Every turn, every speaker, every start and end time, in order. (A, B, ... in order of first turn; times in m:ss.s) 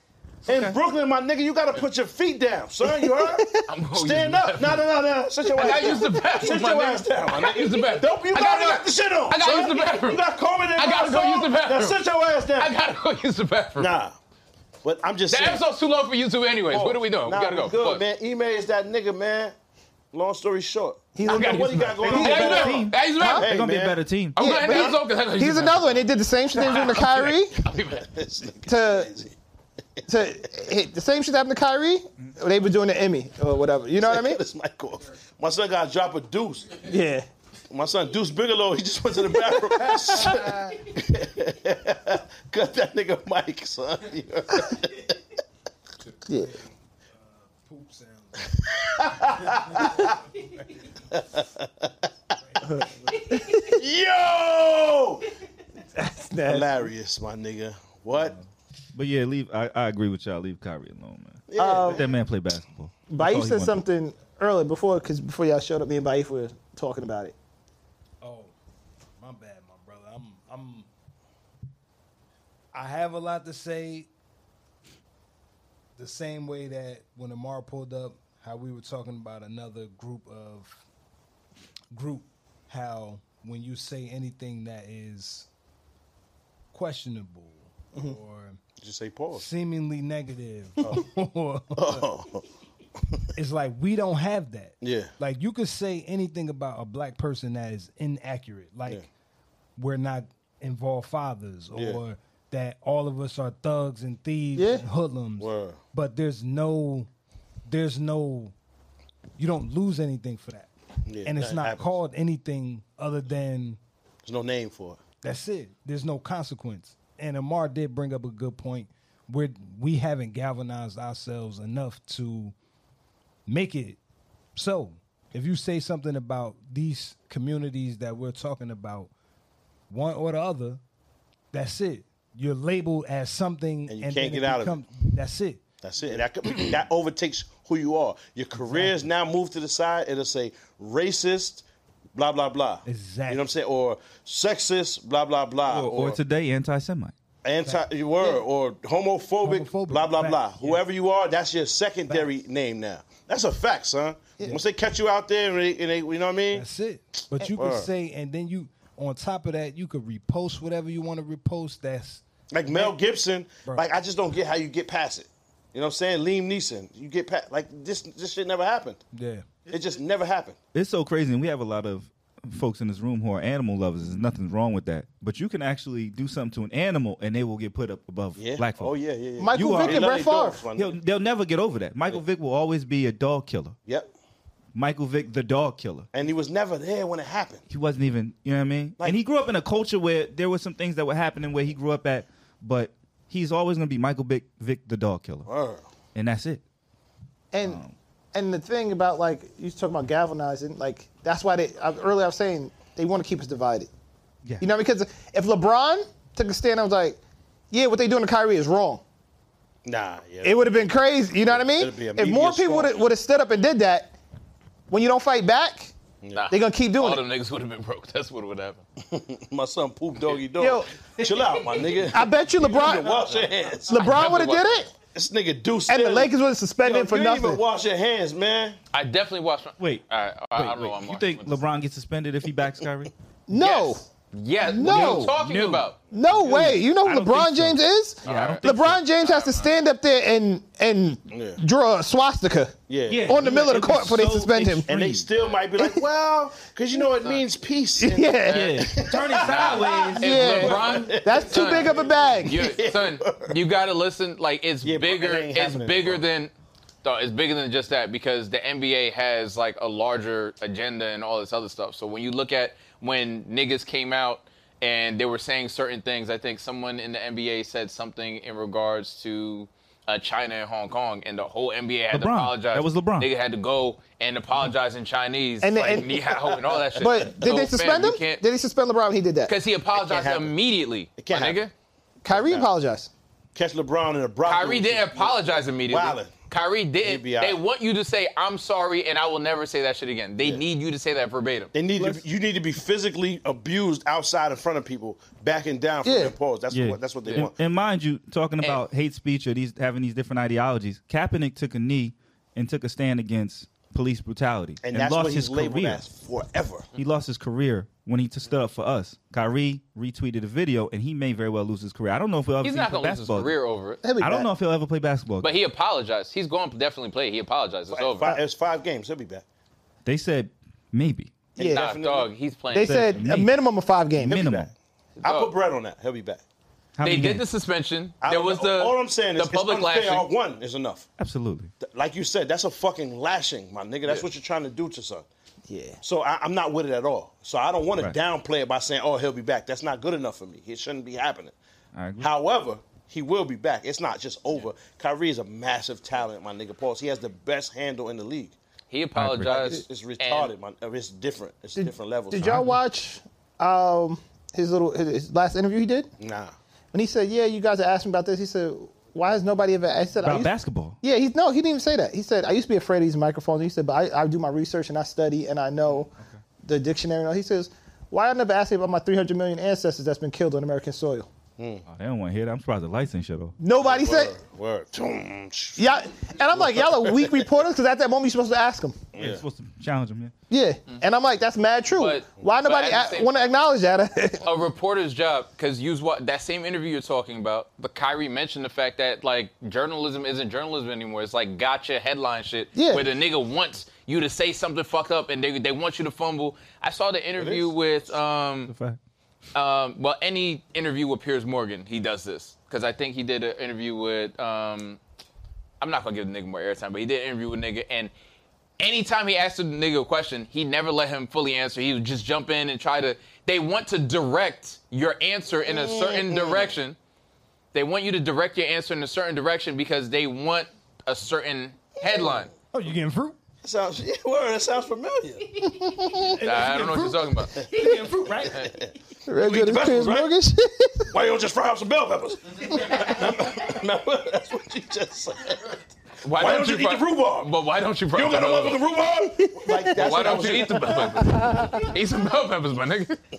0:00.4-0:00.8 A
0:00.4-0:12.7 B
0:02.9-0:03.7 C
0:03.7-0:04.9 D
0:05.6-0:06.2 C
0:05.6-0:10.2 D
0:10.8-0:12.0 D
0:12.6-0:13.9 D
0:13.8-0:14.2 B
0:14.8-0:15.6 B
0:15.3-0:18.0 D
0:16.7-0:19.6 B
0:20.1-0:24.0 B
0:21.2-0:23.5 C
0:21.2-0:23.5 D
0:22.1-0:24.4 A
0:24.4-0:28.1 D
0:24.4-0:27.6 C
0:27.9-0:29.3 B
0:28.6-0:29.1 C
0:30.1-0:34.4 C
0:34.0-0:36.8 B
0:36.8-0:37.3 C
0:37.7-0:45.2 B
0:39.7-0:40.4 C
0:46.3-0:46.6 C
0:46.3-0:48.4 E
0:48.6-0:50.1 B
0:49.4-0:50.6 E
0:51.1-0:51.9 B
0:52.6-0:53.8 C
0:52.6-0:53.4 E
0:53.7-0:55.2 B
0:55.9-0:56.9 C
0:56.4-0:58.4 B
0:58.9-1:03.8 A
1:01.5-1:02.1 B
1:01.6-1:02.0 C
1:03.1-1:07.3 C
1:08.2-1:08.5 E
1:09.2-1:10.9 E
1:12.7-1:14.1 E
1:16.0-1:20.8 E
1:21.9-1:25.5 E
1:26.7-1:28.6 E
1:28.8-1:29.5 B
1:29.3-1:32.0 E
1:31.7-1:32.4 B
1:33.4-1:39.1 E
1:34.8-1:35.1 B
1:39.8-1:47.1 E
1:41.7-1:42.0 B
1:44.6-1:44.8 C
1:45.4-1:45.8 B
1:47.7-1:48.5 E
1:49.4-1:50.7 E
1:51.0-1:52.0 B
1:51.2-1:53.8 E
1:54.2-1:55.0 B
1:55.2-2:02.5 E
2:03.5-2:04.0 E
2:04.6-2:09.1 E
2:09.9-2:10.8 E
2:11.5-2:15.6 E
2:13.9-2:14.8 B
2:15.8-2:21.6 B
2:18.5-2:19.0 E
2:22.1-2:26.2 B
2:22.8-2:23.5 E
2:25.6-2:27.1 A
2:27.4-2:36.6 B
2:29.4-2:30.8 E
2:36.5-2:42.9 E
2:37.6-2:37.9 B
2:42.5-2:49.0 B
2:43.6-2:43.9 E
2:49.1-2:49.6 E
2:49.7-2:50.6 B
2:50.7-2:59.0 A
2:58.4-3:01.0 B
2:59.4-3:00.6 C
2:59.5-3:00.2 A
3:00.7-3:03.8 A
3:04.7-3:06.1 A
3:06.1-3:07.6 B
3:07.7-3:15.5 A
3:15.4-3:15.8 B
3:16.1-3:16.6 A
3:17.5-3:17.8 C
3:17.6-3:17.9 A
3:18.3-3:23.9 C
3:24.6-3:27.2 C
3:27.7-3:29.0 C
3:29.8-3:30.9 B
3:30.4-3:34.1 C
3:31.4-3:33.0 B
3:34.9-3:35.9 C
3:36.2-3:36.5 B
3:36.3-3:38.8 D
3:36.5-3:37.2 C
3:39.0-3:44.1 B
3:40.6-3:40.9 C
3:41.5-3:41.9 D
3:42.1-3:43.3 C
3:43.9-3:44.9 C
3:43.9-3:44.9 D
3:45.1-3:48.8 B
3:45.9-3:47.6 C
3:48.9-3:51.6 D
3:49.8-3:53.1 A
3:53.5-3:54.0 C
3:53.6-3:56.0 D
3:54.6-3:55.3 C
3:54.8-3:59.0 A
3:56.1-4:04.9 C
3:58.2-3:58.6 D
3:59.2-3:59.7 D
4:01.3-4:01.6 B
4:02.9-4:03.4 B
4:03.1-4:05.3 A
4:04.9-4:13.6 B
4:05.8-4:06.0 C
4:08.0-4:08.8 C
4:08.5-4:16.5 D
4:08.5-4:10.9 A
4:10.2-4:12.7 C
4:14.8-4:16.2 B
4:17.0-4:38.4 D
4:32.1-4:33.3 A
4:35.6-4:36.1 C
4:36.1-4:36.8 B
4:37.0-4:39.5 C
4:39.5-4:41.7 D
4:39.9-4:40.5 B
4:41.2-4:41.6 B
4:42.2-4:43.1 C
4:42.3-4:42.7 B
4:43.6-4:46.3 B
4:44.4-4:51.7 D
4:47.0-4:47.6 B
4:51.7-4:57.6 B
4:56.0-4:56.3 C
4:56.7-5:06.0 A
4:57.2-4:57.5 D
5:04.8-5:06.9 B
5:06.9-5:13.6 A
5:12.6-5:14.0 D
5:14.0-5:14.5 C
5:14.2-5:15.5 A
5:15.4-5:18.3 D
5:17.9-5:19.4 B
5:20.0-5:21.3 A
5:21.6-5:21.9 C
5:21.6-5:22.3 B
5:21.7-5:23.2 D
5:22.7-5:24.4 C
5:22.7-5:23.5 A
5:24.2-5:24.7 A
5:24.2-5:24.7 B
5:25.2-5:25.5 D
5:25.2-5:26.4 B
5:27.0-5:27.4 A
5:27.0-5:30.3 D
5:28.2-5:31.1 B
5:31.2-5:31.7 A
5:31.8-5:35.2 B
5:35.7-5:36.0 C
5:36.0-5:41.6 B
5:41.9-5:42.3 A
5:42.2-5:48.6 B
5:48.9-5:50.5 D
5:49.1-5:49.5 A
5:49.4-5:52.6 B
5:51.8-5:56.1 C
5:52.4-5:52.8 A
5:56.2-5:56.6 B
5:56.9-6:06.1 C
6:00.2-6:01.0 A
6:06.6-6:11.3 C
6:11.6-6:11.8 B
6:11.9-6:13.6 A
6:13.6-6:14.3 C
6:13.8-6:17.4 B
6:15.8-6:19.0 C
6:19.1-6:19.4 B
6:19.2-6:20.3 A
6:20.5-6:24.4 C
6:21.9-6:23.5 D
6:24.4-6:38.7 D
6:32.7-6:33.0 C
6:37.4-6:38.2 B
6:38.6-6:39.0 A
6:39.6-6:45.0 D
6:45.8-6:48.1 D
6:48.8-6:57.0 D
6:55.6-6:56.8 B
6:57.7-7:02.5 D
7:02.7-7:03.4 E
7:03.6-7:05.7 B
7:05.6-7:06.4 C
7:06.2-7:08.6 E
7:06.4-7:07.6 D
7:08.4-7:08.7 D
7:08.6-7:10.3 B
7:09.2-7:11.1 C
7:11.1-7:17.5 B
7:16.2-7:18.8 D
7:18.1-7:21.3 B
7:19.2-7:21.9 C
7:19.9-7:23.2 D